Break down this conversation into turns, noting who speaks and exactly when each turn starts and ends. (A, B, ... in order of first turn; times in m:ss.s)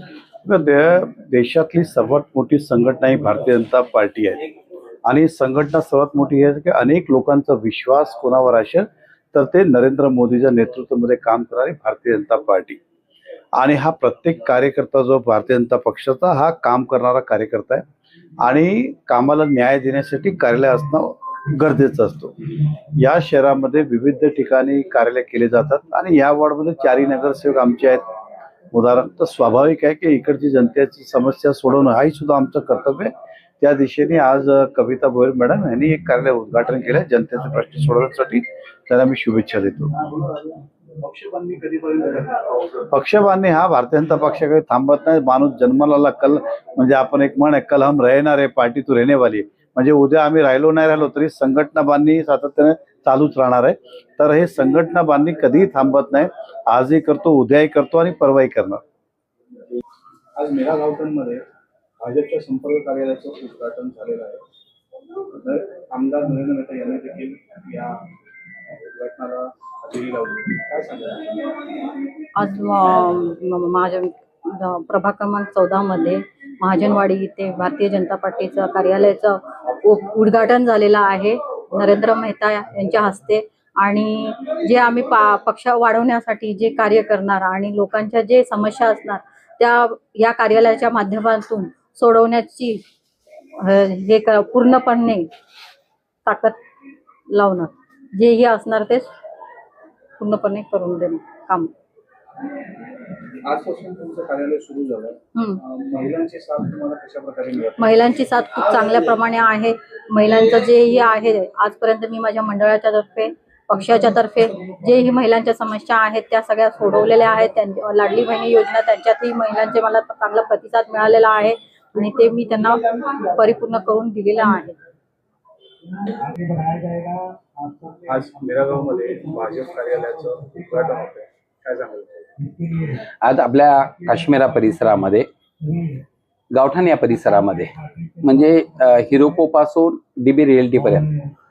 0:00.4-0:04.4 A
0:05.0-0:12.8 A
0:13.5-0:17.8 A
0:18.4-0:22.3 A
0:23.0-0:28.1 A
0:28.7-0:39.9 A
0:41.0-0:42.7 B
0:42.9-0:58.8 A
1:00.4-1:01.4 B
1:02.0-1:04.4 B
1:05.4-1:08.0 B
1:08.9-1:11.2 B
1:12.4-1:32.8 C
1:33.6-1:35.3 C
1:36.2-1:36.6 C
1:37.3-1:39.1 C
1:40.2-1:41.7 C
1:43.4-1:48.0 B
1:45.3-1:45.6 C
1:47.8-2:04.8 C
2:08.1-2:12.3 B
2:13.2-2:15.7 D
2:16.5-2:21.1 D